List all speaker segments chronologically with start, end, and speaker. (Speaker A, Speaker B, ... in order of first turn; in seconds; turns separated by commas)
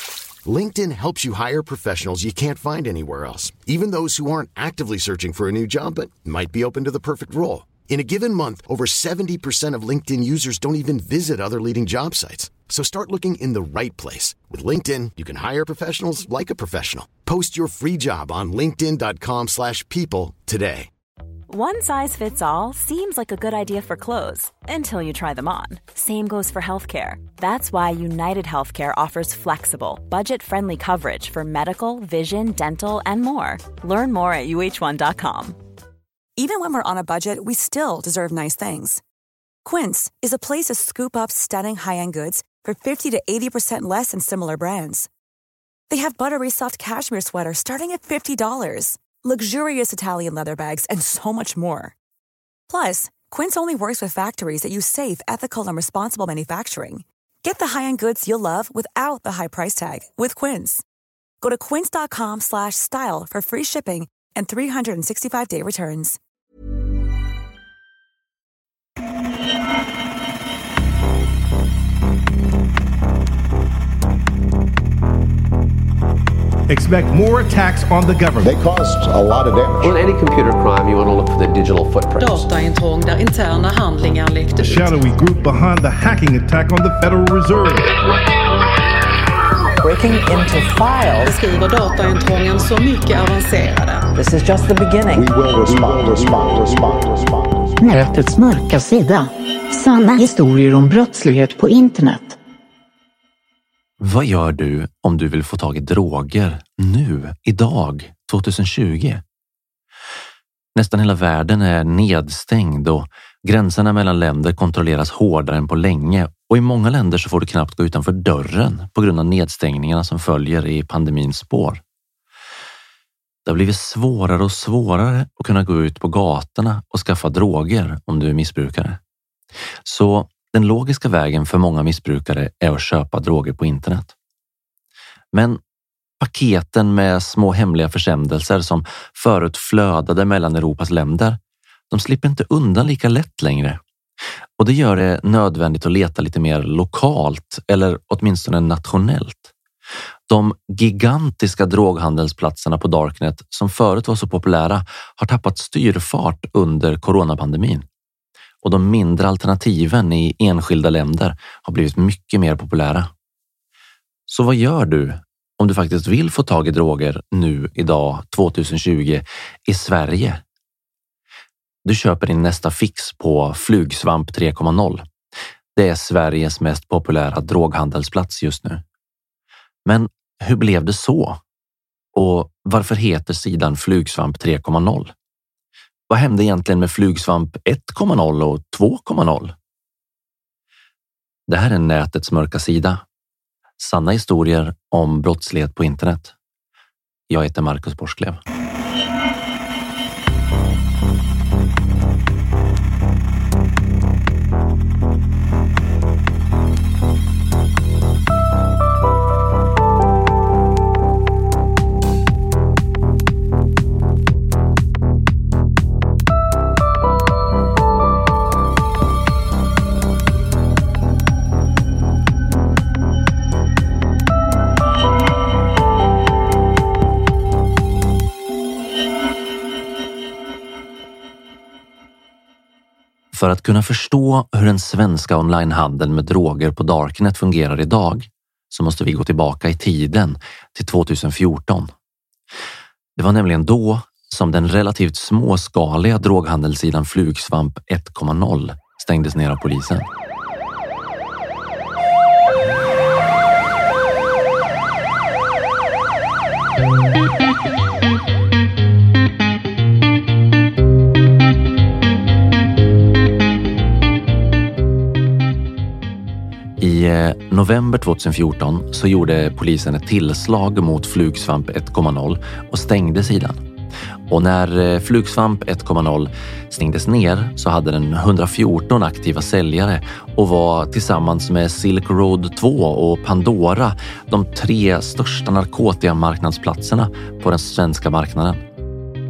Speaker A: 0.5-20.9, Speaker B: 21.5-35.6, Speaker C: 36.4-39.0, Speaker C: 39.6-45.1, Speaker C: 45.9-51.9, Speaker C: 52.7-60.8, Speaker C: 61.4-66.2, Speaker D: 76.8-78.3, Speaker E: 78.4-80.0, Speaker F: 79.8-82.5, Speaker G: 82.2-85.2, Speaker D: 85.2-87.8, Speaker H: 89.8-91.4, Speaker G: 91.2-94.1, Speaker H: 94.2-95.3, Speaker E: 95.1-97.8, Speaker I: 97.8-102.4, Speaker J: 104.0-109.2, Speaker J: 110.8-121.8, Speaker J: 123.4-129.0, Speaker J: 129.8-134.1, Speaker J: 135.3-135.6, Speaker J: 136.2-141.4, Speaker J: 141.9-143.8, Speaker J: 144.6-149.5, Speaker J: 150.3-157.8, Speaker J: 158.6-163.1, Speaker J: 164.3-170.4, Speaker J: 171.8-175.1, Speaker J: 175.7-178.8, Speaker J: 179.8-181.4, Speaker J: 182.1-185.1, Speaker J: 186.1-189.6, Speaker J: 191.5-193.0, Speaker J: 193.8-196.3, Speaker J: 197.3-198.4, Speaker J: 233.3-241.9, Speaker J: 243.2-250.1, Speaker J: 266.8-273.6, Speaker J: 274.3-288.6